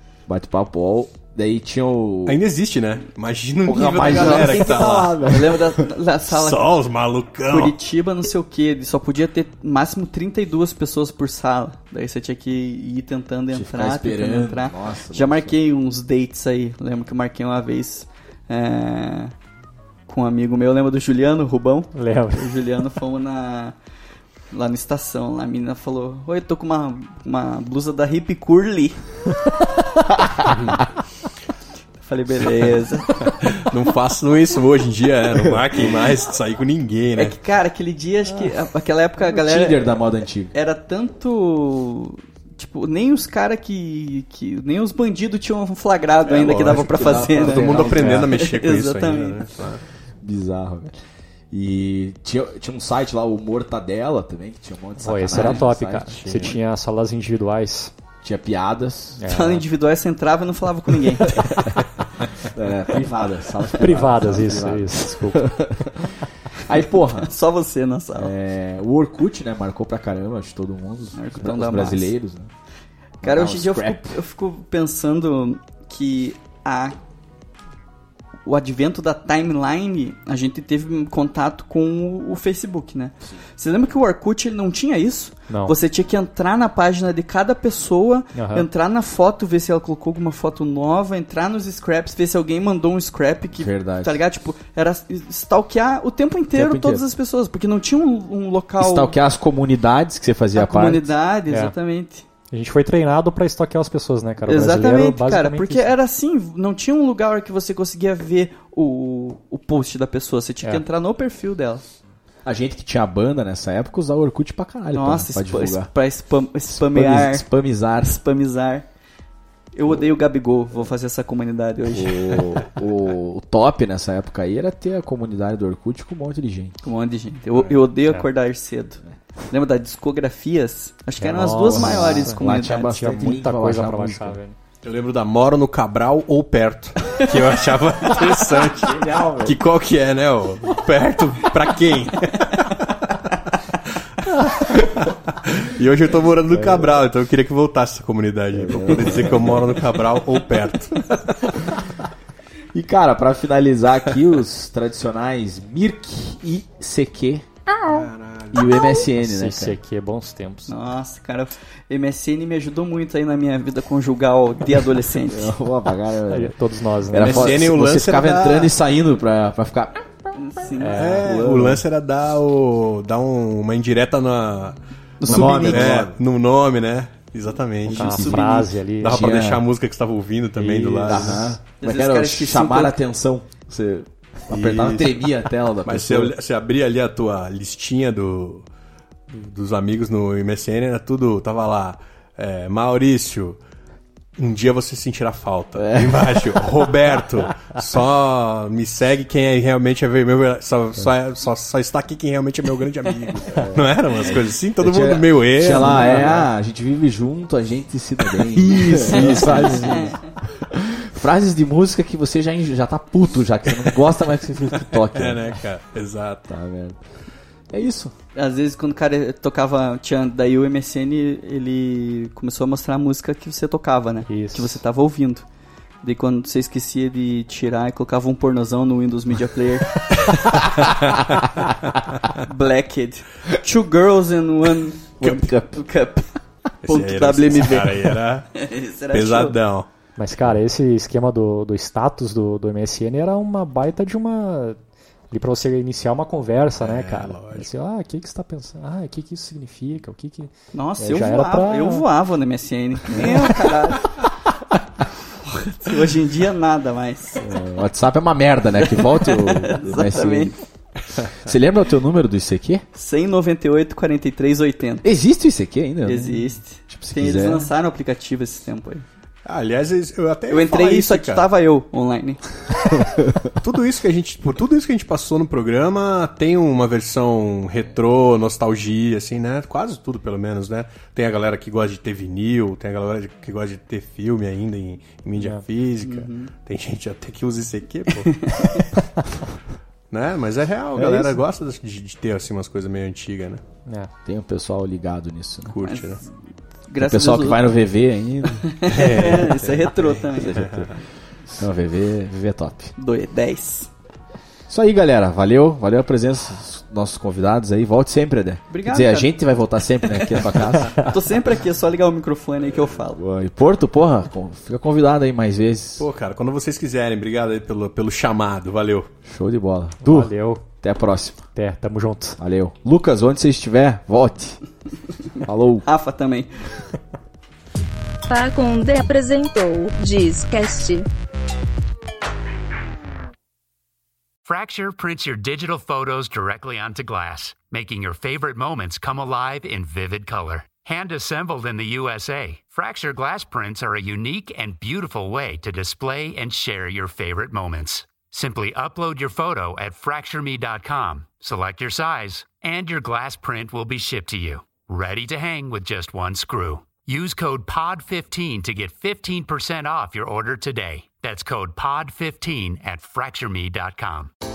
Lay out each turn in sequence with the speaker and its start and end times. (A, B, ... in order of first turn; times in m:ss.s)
0:00.3-0:02.4 A
0:02.2-0:05.3 B
0:03.6-0:05.8 A
0:04.0-0:06.7 C
0:06.3-0:07.8 B
0:07.5-0:19.3 C
0:13.5-0:15.6 A
0:20.1-0:23.7 C
0:21.9-0:22.4 D
0:24.5-0:29.0 C
0:30.0-0:30.4 A
0:30.5-0:30.8 B
0:32.0-0:33.2 C
0:32.4-0:37.4 B
0:37.2-0:40.0 C
0:39.2-0:40.5 A
0:40.5-0:49.5 C
0:46.2-0:49.8 B
0:46.4-0:48.4 A
0:50.2-0:50.9 A
0:51.5-0:56.5 A
0:55.0-0:57.9 D
0:56.1-0:56.6 B
0:58.2-0:59.3 A
0:59.2-0:59.6 D
0:59.3-1:01.6 C
1:01.2-1:01.8 A
1:02.4-1:07.3 A
1:03.7-1:05.6 D
1:07.2-1:08.3 C
1:08.1-1:12.5 A
1:11.1-1:12.1 C
1:13.2-1:14.2 A
1:13.2-1:17.0 C
1:18.4-1:39.1 C
1:25.5-1:25.8 D
1:28.3-1:28.7 D
1:33.5-1:34.2 A
1:36.5-1:37.0 A
1:38.8-1:41.1 A
1:40.5-1:42.2 C
1:42.5-1:45.9 D
1:44.5-1:51.8 C
1:52.4-1:55.9 A
1:54.9-1:57.5 C
1:56.7-1:58.2 A
1:58.0-1:58.8 C
1:59.7-2:02.4 C
2:01.9-2:06.8 A
2:06.8-2:12.8 C
2:07.5-2:07.8 B
2:11.2-2:14.5 D
2:11.5-2:14.4 A
2:14.8-2:23.0 B
2:18.3-2:19.6 A
2:24.5-2:31.6 B
2:26.5-2:27.0 A
2:28.5-2:29.8 A
2:32.7-2:37.4 A
2:37.8-2:38.8 B
2:38.5-2:39.8 A
2:39.1-2:40.7 D
2:40.7-2:45.5 C
2:45.3-2:46.6 A
2:46.3-2:47.6 D
2:47.1-2:50.0 A
2:47.1-2:48.7 B
2:50.4-2:51.2 C
2:50.8-2:51.3 D
2:51.0-2:58.5 B
2:51.0-2:51.8 A
2:55.2-2:56.1 C
2:55.2-2:56.1 A
2:57.8-2:59.6 A
2:57.9-2:59.2 D
2:59.0-3:01.5 B
3:00.6-3:01.5 D
3:01.0-3:06.3 A
3:01.8-3:03.0 C
3:04.5-3:05.3 B
3:05.8-3:08.6 B
3:09.3-3:13.6 B
3:14.4-3:26.5 B
3:15.7-3:16.8 A
3:23.5-3:35.6 A
3:28.7-3:29.9 B
3:29.0-3:30.2 C
3:34.9-3:36.5 B
3:36.5-3:37.0 A
3:37.7-3:38.1 A
3:38.3-3:45.4 C
3:44.3-3:44.8 D
3:46.0-3:50.1 C
3:50.0-3:50.8 A
3:52.4-3:56.3 C
3:55.2-3:55.8 A
3:56.8-3:59.6 C
3:56.8-3:58.5 B
3:59.1-3:59.9 B
4:00.2-4:04.8 D
4:05.3-4:12.0 D
4:06.8-4:07.7 B
4:10.7-4:14.1 C
4:13.1-4:13.5 A
4:15.4-4:17.4 C
4:17.4-4:20.6 A
4:18.8-4:20.6 C
4:21.3-4:22.8 A
4:22.9-4:25.0 C
4:25.0-4:27.7 A
4:26.0-4:29.0 C
4:29.4-4:31.4 B
4:30.5-4:32.4 C
4:32.9-4:33.4 A
4:33.6-4:48.5 B
4:45.4-4:45.6 D
4:46.0-4:46.5 C
4:48.3-4:48.9 C
4:50.1-4:53.6 B
4:50.9-4:51.4 A
4:53.8-4:54.1 D
4:54.2-4:55.8 A
4:55.7-4:56.2 B
4:55.8-4:56.3 C
4:56.9-4:57.7 C
4:57.0-4:58.7 A
4:58.6-5:00.6 C
4:58.9-5:00.9 B
5:00.4-5:00.9 A
5:01.5-5:02.9 A
5:03.0-5:03.9 C
5:04.7-5:11.0 A
5:08.7-5:09.3 C
5:10.2-5:13.2 C
5:13.1-5:16.1 A
5:16.0-5:19.1 B
5:19.2-5:21.4 A
5:20.0-5:20.6 D
5:21.5-5:22.4 D
5:22.4-5:24.6 A
5:25.4-5:25.8 A
5:25.8-5:26.5 C
5:28.3-5:31.0 E
5:34.4-6:04.3 F